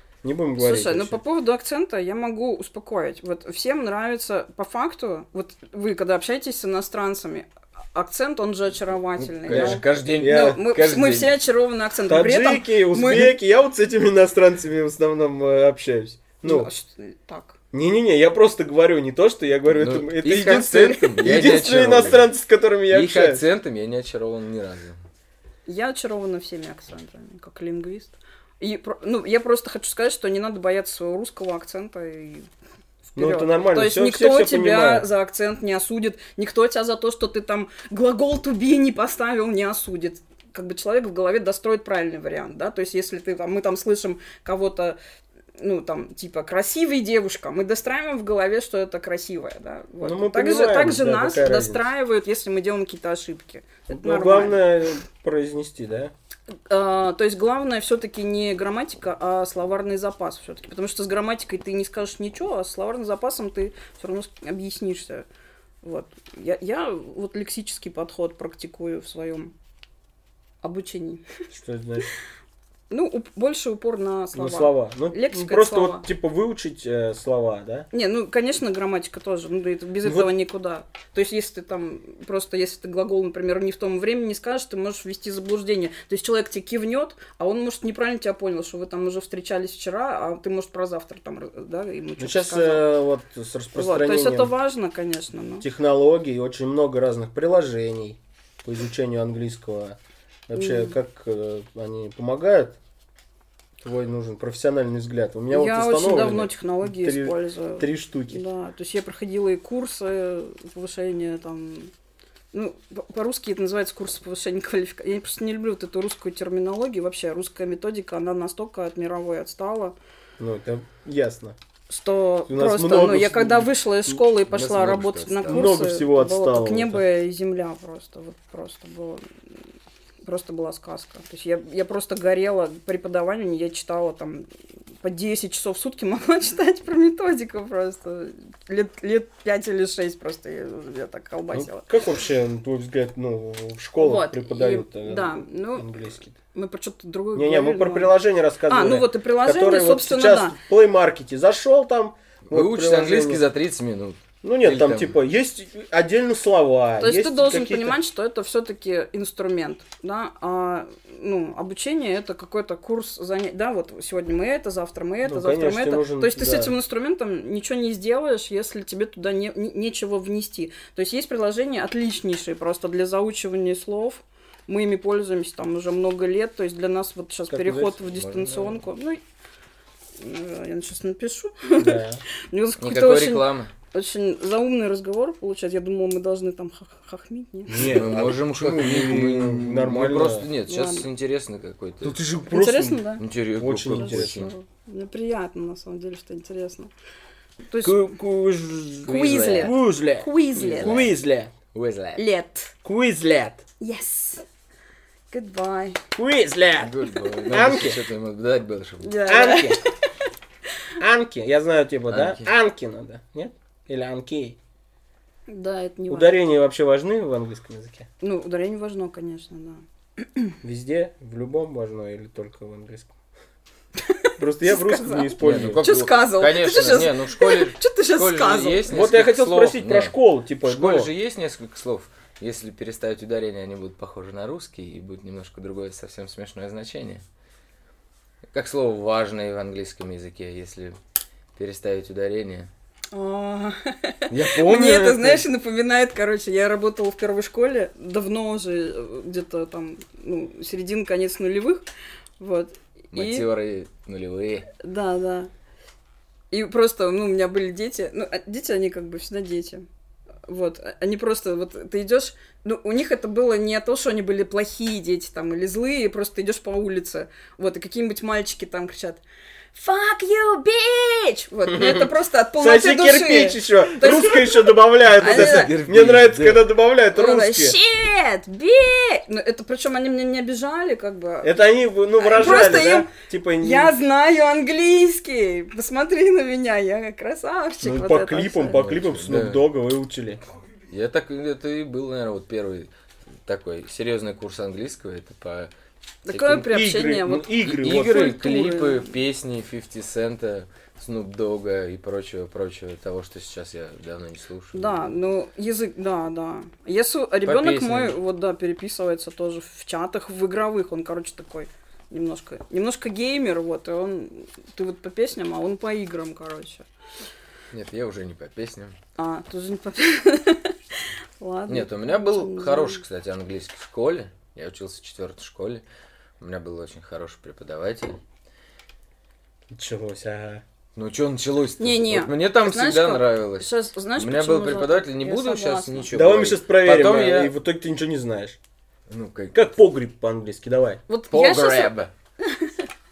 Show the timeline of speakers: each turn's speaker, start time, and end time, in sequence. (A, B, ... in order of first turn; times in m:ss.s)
0:00.2-0:01.2 A
0:00.6-0:13.3 B
0:09.2-0:11.3 C
0:09.5-0:10.6 A
0:12.1-0:16.7 A
0:16.4-0:17.6 B
0:17.7-0:23.4 A
0:19.7-0:22.3 C
0:22.9-0:25.0 C
0:25.6-0:32.5 B
0:33.1-0:45.0 B
0:33.2-0:35.1 A
0:45.6-0:54.6 B
0:50.0-0:51.8 A
0:53.9-0:56.1 A
0:56.7-1:05.2 B
1:05.8-1:09.5 B
1:10.6-1:11.2 B
1:11.5-1:12.1 A
1:12.9-1:16.0 B
1:14.3-1:17.9 A
1:17.9-1:32.9 B
1:20.0-1:20.3 A
1:32.2-1:34.5 A
1:33.7-1:35.6 B
1:35.6-1:40.0 A
1:40.5-1:42.8 A
1:40.5-1:41.0 B
1:43.8-1:48.4 A
1:45.5-1:51.9 B
1:52.5-1:59.9 B
2:00.4-2:01.6 A
2:01.9-2:09.2 B
2:02.5-2:03.7 A
2:04.5-2:05.7 C
2:05.5-2:07.0 A
2:10.2-2:14.5 B
2:15.0-2:21.9 B
2:21.5-2:26.3 A
2:24.0-2:28.1 B
2:27.3-2:33.4 A
2:28.7-2:30.6 B
2:32.5-2:35.1 C
2:34.4-2:38.0 A
2:37.0-2:59.2 B
2:45.2-2:46.7 A
2:57.5-2:58.1 A
2:58.1-2:58.8 C
3:00.2-3:08.0 B
3:01.8-3:02.2 A
3:02.8-3:03.7 C
3:07.7-3:10.5 A
3:07.8-3:12.2 C
3:10.7-3:11.0 B
3:12.0-3:13.0 A
3:12.5-3:13.2 B
3:13.2-3:14.5 C
3:13.6-3:14.5 A
3:13.9-3:16.9 B
3:17.7-3:18.1 B
3:17.8-3:21.5 A
3:19.0-3:19.8 C
3:19.0-3:21.1 B
3:20.6-3:21.1 C
3:21.7-3:22.2 C
3:22.2-3:22.7 B
3:22.8-3:23.6 A
3:23.8-3:24.4 B
3:25.3-3:26.0 B
3:26.1-3:28.0 A
3:26.8-3:29.1 C
3:29.0-3:29.9 B
3:29.3-3:29.8 A
3:31.0-3:34.6 A
3:32.1-3:32.5 C
3:35.5-3:36.3 B
3:36.1-3:38.1 A
3:38.2-3:40.6 B
3:40.6-3:43.1 A
3:44.0-3:48.8 B
3:44.4-3:45.8 A
3:45.4-3:57.2 C
3:48.9-3:51.1 A
3:58.5-4:01.0 C
4:01.6-4:02.7 C
4:03.1-4:11.8 B
4:04.3-4:05.4 C
4:12.4-4:13.4 B
4:13.1-4:14.7 C
4:14.8-4:15.5 B
4:16.5-4:19.8 B
4:20.5-4:29.2 B
4:29.7-4:35.7 B
4:31.7-4:37.8 A
4:35.1-4:36.6 C
4:37.1-4:41.6 B
4:41.4-4:43.9 A
4:42.2-4:48.8 B
4:47.8-4:50.4 A
4:48.7-4:49.6 C
4:50.9-4:52.9 C
4:53.4-4:55.7 C
4:56.2-4:59.1 B
4:56.3-4:56.8 C
4:56.7-4:58.3 A
4:57.6-5:05.2 C
5:04.7-5:16.8 B
5:07.4-5:08.2 C
5:17.7-5:18.9 C
5:19.2-5:23.0 B
5:21.7-5:25.8 C
5:26.4-5:28.2 C
5:29.7-5:30.6 A
5:30.9-5:37.5 C
5:31.8-5:36.1 B
5:36.1-5:38.6 A
5:39.1-5:39.6 C
5:39.5-5:41.0 A
5:41.1-5:42.8 B
5:41.3-5:42.1 C